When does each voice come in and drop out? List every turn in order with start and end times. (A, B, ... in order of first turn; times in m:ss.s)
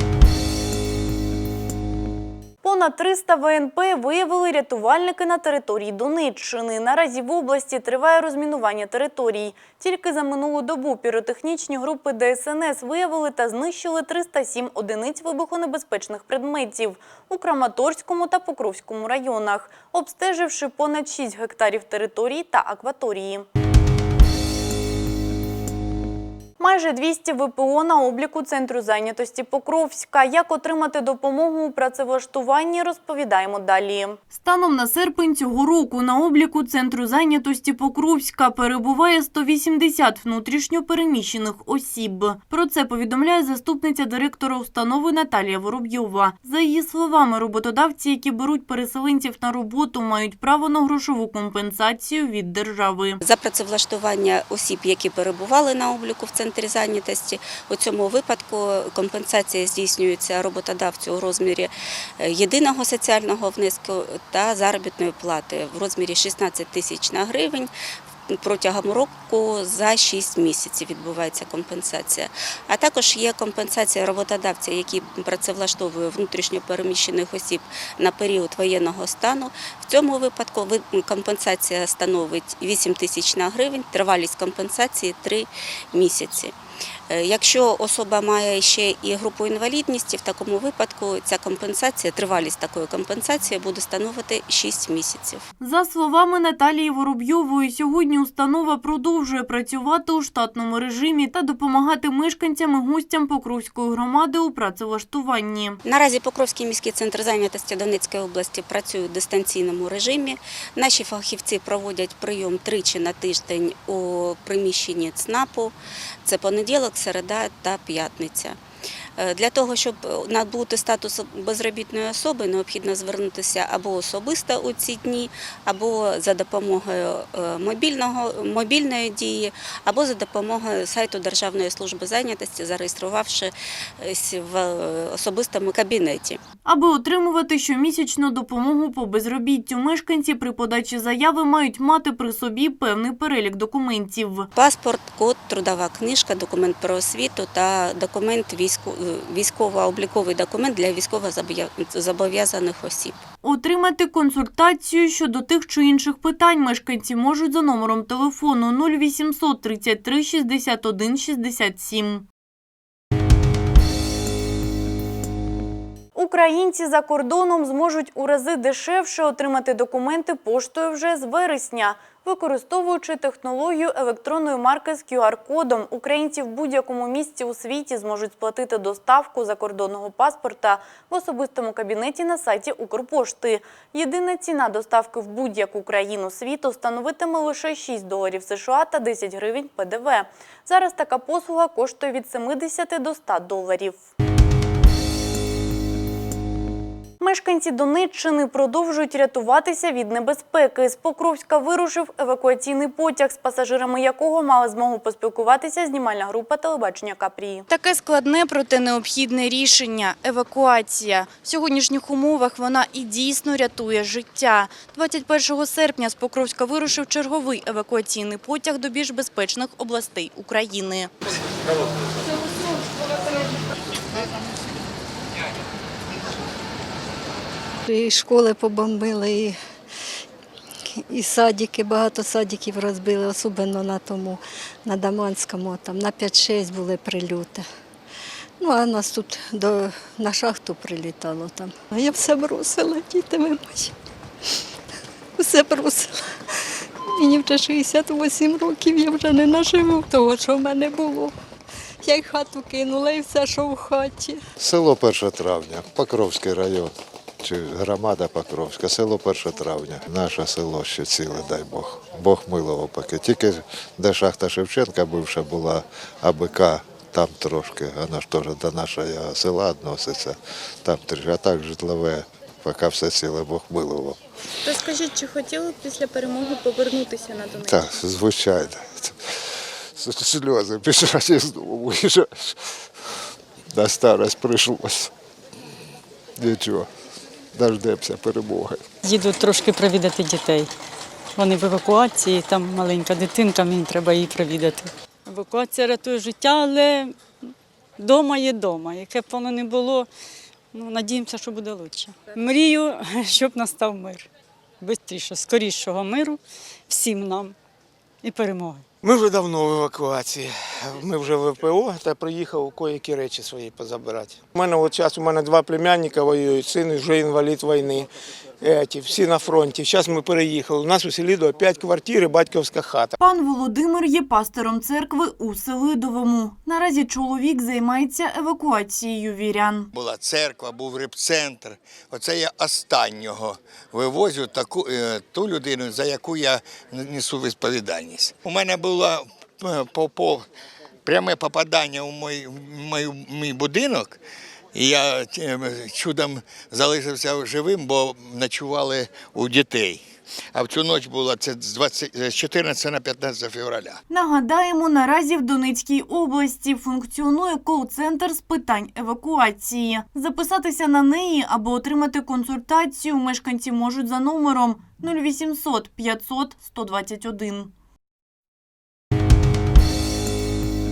0:02.6-0:23.4 A
0:26.6-0:53.2 A
0:53.2-1:07.7 B
1:08.3-1:26.5 B
1:27.1-1:35.4 B
1:35.6-1:45.8 A
1:45.8-1:55.7 B
1:56.2-1:58.6 B
1:59.2-2:16.4 B
2:16.6-2:24.5 A
2:24.5-2:33.2 B
2:33.4-2:42.3 A
2:46.1-3:14.0 A
3:17.2-3:41.1 A
3:47.9-3:49.5 C
3:51.1-3:57.6 C
3:58.6-4:03.9 C
4:05.4-4:06.2 C
4:07.1-4:11.3 C
4:12.0-4:14.4 C
4:14.6-4:34.2 D
4:34.6-4:37.8 A
4:37.6-4:39.2 D
4:39.9-4:42.6 D
4:43.7-4:45.1 D
4:46.4-4:46.9 D
4:47.6-4:48.8 D
4:49.0-4:50.7 E
4:51.3-4:57.2 E
4:58.0-5:00.1 E
5:00.7-5:04.3 E
5:04.8-5:07.5 E
5:08.2-5:08.8 E
5:09.0-5:18.1 F
5:18.6-5:23.2 F
5:23.2-5:29.9 A
5:29.9-5:40.4 G
5:41.0-5:44.2 G
5:44.7-5:50.0 G
5:50.5-5:54.0 G
5:54.1-6:07.7 A